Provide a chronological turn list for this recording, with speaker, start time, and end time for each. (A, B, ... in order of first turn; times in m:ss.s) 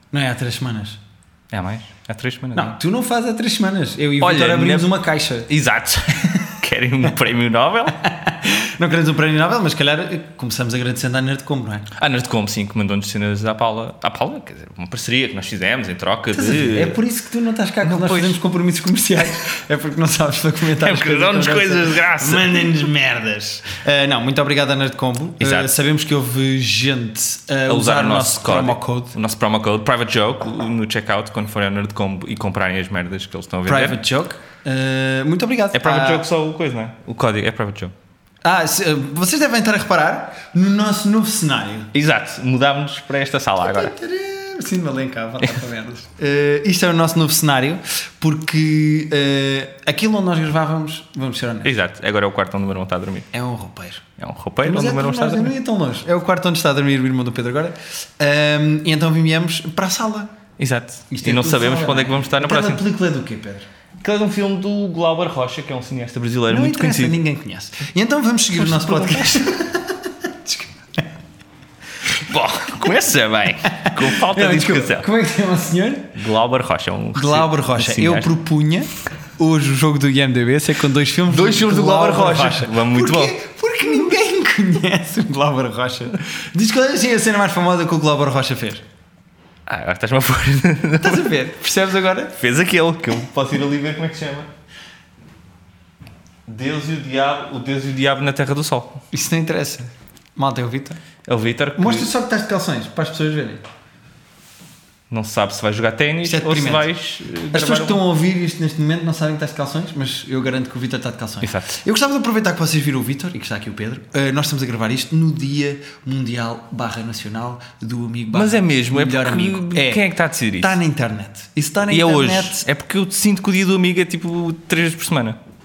0:00.1-0:01.0 A
0:01.5-0:02.8 B
0:02.5-0:05.5 A
0:04.2-0:04.9 B
0:05.5-0:08.0 B
0:06.2-0:06.5 A
0:08.0-0:11.9 A
0:12.0-0:17.0 B
0:16.3-0:29.1 A
0:17.8-0:18.4 B
0:20.8-0:22.9 B
0:25.4-0:25.7 B
0:27.7-0:34.0 B
0:33.6-0:36.2 A
0:35.7-0:37.9 B
0:38.4-0:41.9 A
0:41.9-0:43.9 B
0:43.6-0:51.7 A
0:51.6-0:53.3 B
0:53.3-0:54.0 A
0:54.2-0:55.5 B
0:54.6-1:00.3 A
1:00.6-1:02.8 B
1:01.1-1:03.7 A
1:04.0-1:07.2 B
1:06.5-1:11.1 A
1:08.5-1:09.5 B
1:12.2-1:15.0 B
1:13.6-1:16.1 A
1:16.2-1:18.3 B
1:17.1-1:28.8 A
1:21.3-1:23.4 B
1:29.6-1:31.3 B
1:31.0-1:32.4 A
1:32.4-1:34.5 B
1:36.4-1:39.0 B
1:39.1-1:41.0 A
1:41.2-1:42.1 B
1:41.8-1:43.6 A
1:45.1-1:48.0 B
1:46.2-1:46.9 A
1:47.5-2:02.6 A
1:51.4-1:51.7 B
1:58.3-2:00.8 B
2:01.9-2:05.4 B